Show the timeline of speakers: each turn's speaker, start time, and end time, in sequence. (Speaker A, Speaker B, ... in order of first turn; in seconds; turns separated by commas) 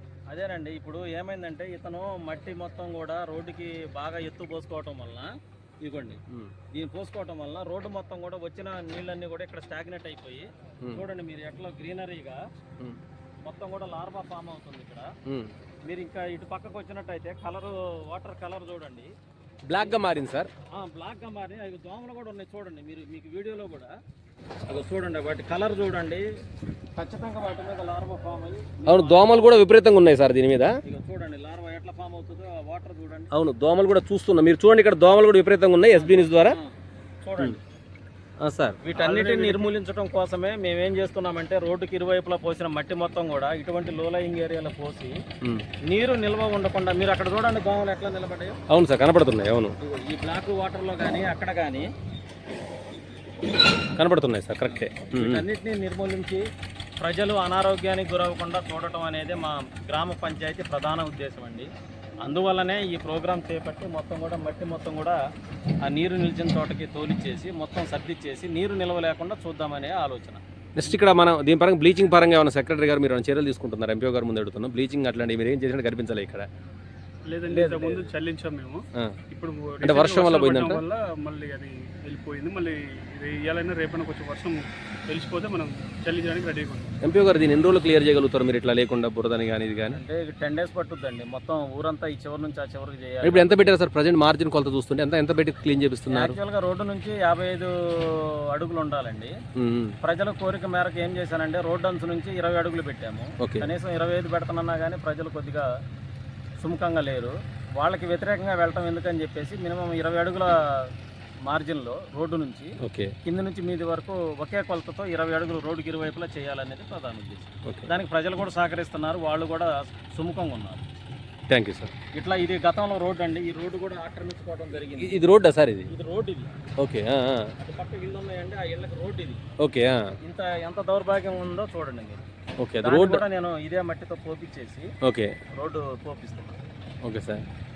Speaker A: 0.3-5.3, Speaker A: 5.8-6.2, Speaker A: 6.7-12.4, Speaker A: 13.4-15.1, Speaker B: 15.2-15.5, Speaker A: 15.9-19.1, Speaker B: 19.6-20.5, Speaker A: 20.7-23.9, Speaker A: 24.6-26.2, Speaker A: 27.0-29.6, Speaker B: 28.9-30.8, Speaker A: 30.9-33.3, Speaker B: 33.3-36.6, Speaker A: 35.9-36.7, Speaker A: 37.2-37.6, Speaker B: 38.4-39.4, Speaker A: 38.8-45.1, Speaker C: 39.0-39.5, Speaker A: 45.9-48.6, Speaker B: 48.7-49.7, Speaker A: 49.8-51.9, Speaker B: 54.0-55.4, Speaker A: 54.7-56.4, Speaker A: 57.0-61.7, Speaker A: 62.2-65.2, Speaker A: 65.8-70.4, Speaker B: 70.8-76.5, Speaker C: 77.3-86.9, Speaker A: 77.5-78.1, Speaker B: 79.8-80.8, Speaker B: 87.0-90.0, Speaker A: 89.9-93.7, Speaker B: 93.2-96.3, Speaker A: 96.1-99.3, Speaker B: 99.6-99.9, Speaker A: 100.0-105.7, Speaker B: 103.4-103.7, Speaker A: 106.6-110.9, Speaker A: 111.5-112.7, Speaker B: 112.8-113.1, Speaker A: 113.2-120.8, Speaker B: 121.5-121.9, Speaker A: 122.1-125.3, Speaker B: 125.0-125.9, Speaker A: 125.9-126.5, Speaker B: 126.8-127.5, Speaker A: 127.6-129.4, Speaker B: 129.6-130.1, Speaker A: 130.2-132.2, Speaker B: 132.6-133.2, Speaker A: 132.8-134.9, Speaker B: 135.0-135.3, Speaker A: 135.6-136.6, Speaker B: 137.0-137.4